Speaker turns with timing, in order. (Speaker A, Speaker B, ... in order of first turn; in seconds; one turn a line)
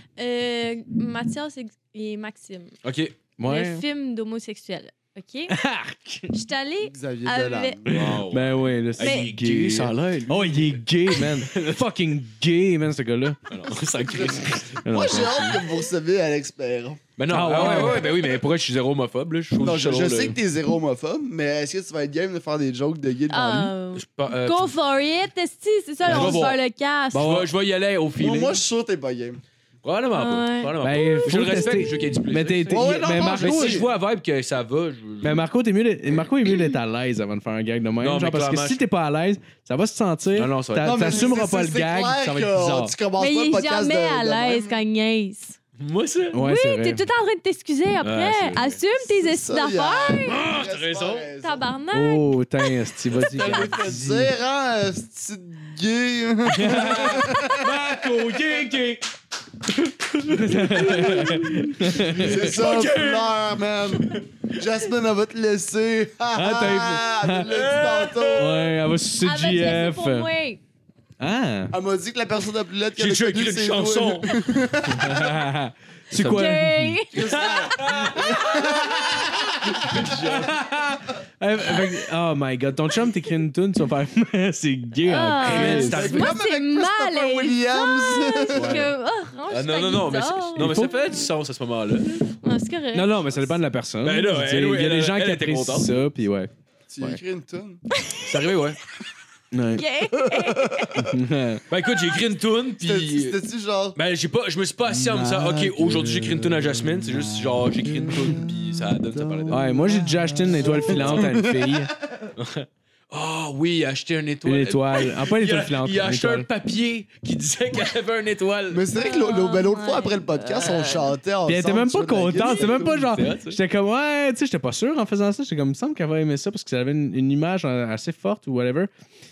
Speaker A: 0.2-2.8
Speaker B: 2.8-3.2
Speaker C: 3.4-3.8
Speaker A: 3.5-5.5
Speaker C: 5.5-6.3
Speaker A: 6.3-7.8
Speaker D: 6.8-8.2
Speaker C: 7.8-13.4
Speaker B: 7.9-11.8
Speaker A: 9.0-9.3
Speaker B: 13.5-15.6
Speaker D: 14.0-17.0
Speaker C: 14.8-15.6
Speaker B: 17.2-20.4
Speaker C: 17.3-18.1
Speaker A: 17.5-18.4
Speaker D: 19.6-23.7
Speaker A: 23.3-27.5
Speaker B: 23.9-24.8
Speaker B: 26.0-26.6
Speaker C: 26.1-26.5
Speaker B: 27.1-28.6
Speaker D: 28.2-29.4
Speaker B: 29.8-35.5
Speaker A: 30.1-31.8
Speaker C: 30.8-33.8
Speaker D: 32.7-33.9
Speaker C: 35.2-42.9
Speaker B: 38.0-38.8
Speaker B: 40.3-41.3
Speaker D: 40.8-44.8
Speaker A: 43.2-45.6
Speaker B: 45.8-46.4
Speaker C: 46.3-47.0
Speaker A: 46.4-50.4
Speaker B: 48.0-48.8
Speaker D: 49.0-51.6
Speaker B: 50.3-51.3
Speaker A: 51.4-52.8
Speaker C: 51.9-54.3
Speaker D: 53.2-57.8
Speaker C: 56.5-59.0
Speaker B: 56.6-59.0
Speaker B: 60.1-63.4
Speaker C: 60.2-62.6
Speaker D: 60.9-68.6
Speaker B: 64.0-64.2
Speaker C: 66.3-67.5
Speaker B: 67.4-68.5
Speaker C: 68.3-70.3
Speaker A: 69.2-70.6
Speaker C: 71.2-71.7
Speaker D: 71.7-75.3
Speaker B: 73.0-74.4
Speaker C: 74.9-77.0
Speaker A: 76.2-79.2
Speaker D: 77.1-80.4
Speaker B: 77.2-80.6
Speaker C: 79.8-86.1
Speaker A: 85.1-91.3
Speaker B: 85.4-86.3
Speaker D: 85.7-88.9
Speaker B: 88.5-88.9
Speaker B: 89.5-92.3
Speaker C: 90.6-91.3
Speaker A: 92.1-93.6
Speaker C: 92.9-97.2
Speaker B: 94.0-95.9
Speaker D: 96.9-97.8
Speaker B: 98.2-98.8
Speaker C: 99.5-99.8
Speaker A: 99.8-100.9
Speaker D: 100.2-101.1
Speaker C: 101.0-101.6
Speaker B: 101.7-103.4
Speaker D: 102.8-104.0
Speaker B: 104.0-109.8
Speaker D: 104.8-112.3
Speaker C: 109.5-111.9
Speaker B: 110.5-111.4
Speaker B: 112.4-118.8
Speaker C: 114.5-116.5
Speaker D: 118.7-123.1
Speaker A: 118.9-121.1
Speaker C: 121.5-128.9
Speaker B: 122.4-123.6